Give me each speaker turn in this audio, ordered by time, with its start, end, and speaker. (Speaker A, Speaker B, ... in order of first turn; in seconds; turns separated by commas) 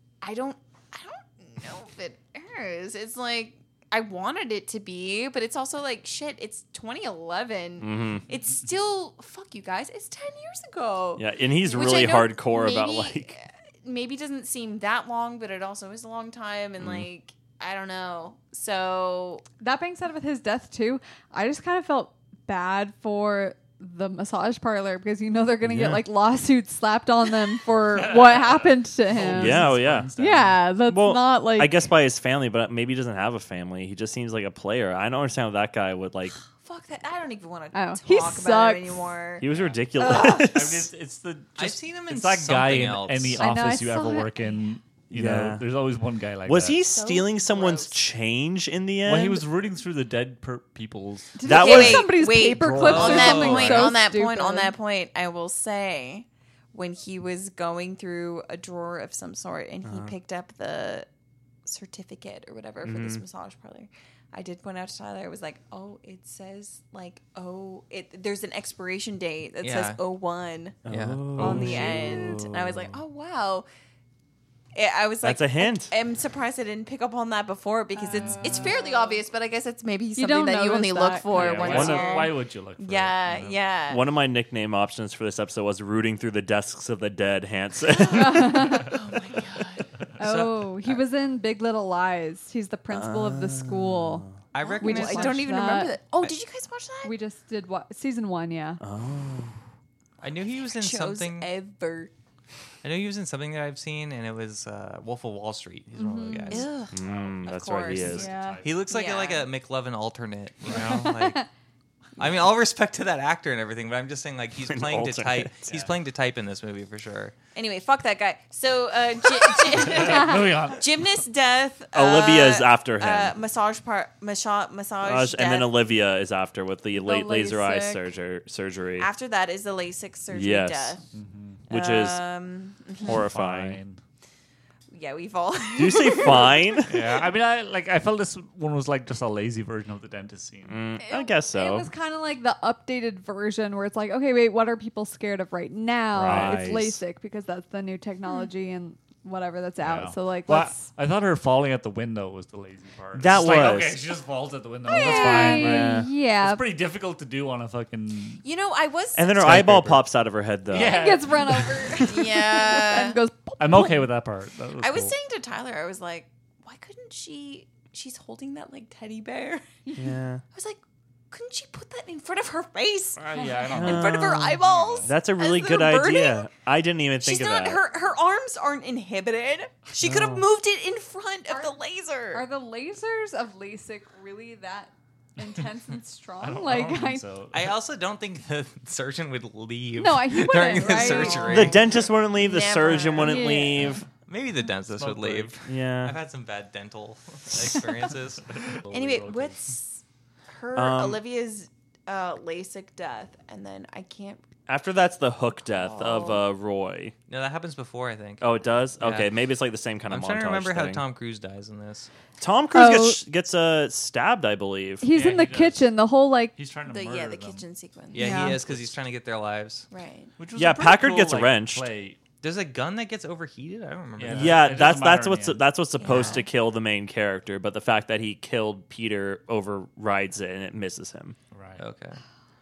Speaker A: 0.2-19.4, Speaker B: 7.8-8.2, Speaker B: 11.2-13.3, Speaker B: 16.8-17.1, Speaker C: 19.6-31.8, Speaker D: 27.9-30.7, Speaker B: 29.3-30.1, Speaker B: 30.9-36.4, Speaker A: 36.4-40.5, Speaker C: 37.7-39.0, Speaker B: 39.4-40.9, Speaker D: 39.5-46.8, Speaker E: 41.6-43.5, Speaker C: 43.4-44.7, Speaker B: 45.1-45.6, Speaker B: 46.5-49.4, Speaker A: 46.8-48.0, Speaker D: 49.0-51.4, Speaker C: 51.4-54.7, Speaker B: 51.4-52.2, Speaker A: 51.5-61.1, Speaker D: 52.5-53.9, Speaker E: 52.8-53.9, Speaker B: 59.8-60.1, Speaker A: 61.6-70.8, Speaker B: 62.8-63.2, Speaker E: 69.6-70.0, Speaker B: 70.8-73.0, Speaker E: 70.9-71.5, Speaker A: 71.3-73.7, Speaker D: 71.4-72.0, Speaker A: 74.7-84.0, Speaker B: 75.2-75.9, Speaker D: 78.1-78.8, Speaker C: 78.2-78.7, Speaker C: 80.2-82.0, Speaker D: 81.3-83.6, Speaker B: 81.6-82.1, Speaker B: 83.9-88.8, Speaker C: 88.1-88.9, Speaker A: 88.2-89.8, Speaker E: 90.2-91.0, Speaker C: 90.2-94.3, Speaker B: 92.9-94.3, Speaker E: 94.5-95.5, Speaker A: 94.6-97.1, Speaker C: 94.8-96.0, Speaker C: 97.0-98.8, Speaker B: 98.8-99.5, Speaker E: 100.2-101.5, Speaker A: 100.7-102.1, Speaker E: 102.8-106.7, Speaker C: 106.0-106.7, Speaker A: 106.5-108.3, Speaker B: 106.9-108.3, Speaker D: 107.0-108.9, Speaker C: 108.1-108.6, Speaker E: 108.6-111.4, Speaker A: 108.9-109.5, Speaker C: 110.7-111.5, Speaker E: 112.2-117.3, Speaker B: 114.7-115.7, Speaker D: 115.7-115.9, Speaker A: 117.5-125.7, Speaker D: 119.8-120.8, Speaker B: 121.9-123.3, Speaker B: 125.0-129.1, Speaker C: 127.0-128.1, Speaker A: 129.0-131.0, Speaker B: 130.3-131.0, Speaker D: 131.1-131.7, Speaker B: 131.7-132.2, Speaker A: 131.7-133.2, Speaker B: 133.0-133.8, Speaker D: 133.1-134.0, Speaker A: 134.9-136.8, Speaker B: 135.7-137.1, Speaker D: 136.9-140.8, Speaker B: 140.7-141.9, Speaker C: 141.0-150.8, Speaker D: 146.1-146.9, Speaker B: 146.2-147.0, Speaker D: 149.8-158.4, Speaker B: 153.1-154.0, Speaker C: 154.8-156.6, Speaker A: 154.9-155.6, Speaker B: 155.5-156.1, Speaker A: 158.4-159.4, Speaker B: 159.2-161.2, Speaker D: 159.4-160.0, Speaker D: 160.7-162.0, Speaker C: 160.8-164.1, Speaker B: 161.8-162.2, Speaker A: 162.1-163.2, Speaker D: 163.6-165.1, Speaker A: 164.8-169.8, Speaker B: 169.9-170.4, Speaker A: 170.5-176.5, Speaker D: 173.2-175.1, Speaker C: 173.3-173.7, Speaker B: 173.7-177.8, Speaker A: 177.2-182.4, Speaker B: 180.0-180.5, Speaker C: 181.5-181.8, Speaker C: 182.3-187.2, Speaker D: 186.4-187.7, Speaker E: 187.5-191.9, Speaker C: 190.0-191.8, Speaker A: 190.9-193.7, Speaker B: 191.5-194.1, Speaker C: 193.1-194.0, Speaker E: 194.3-198.5, Speaker D: 194.9-195.5, Speaker B: 195.7-196.2, Speaker D: 198.6-199.6, Speaker A: 198.9-204.4, Speaker B: 200.7-201.2, Speaker B: 204.7-207.1, Speaker A: 205.7-206.4, Speaker E: 207.3-208.5, Speaker B: 208.4-211.0, Speaker E: 209.0-209.3, Speaker E: 210.1-212.1, Speaker B: 212.4-215.1, Speaker C: 212.7-213.2, Speaker C: 215.0-216.5, Speaker D: 215.1-215.9, Speaker D: 216.5-217.7, Speaker A: 216.9-218.4, Speaker E: 218.1-219.9, Speaker C: 218.2-218.6, Speaker D: 218.3-219.0, Speaker A: 219.9-220.3, Speaker D: 220.4-222.2, Speaker B: 220.6-221.8, Speaker E: 222.4-224.7, Speaker D: 224.2-226.3, Speaker B: 224.3-231.3, Speaker A: 226.0-226.5, Speaker D: 231.5-231.8, Speaker E: 231.8-232.2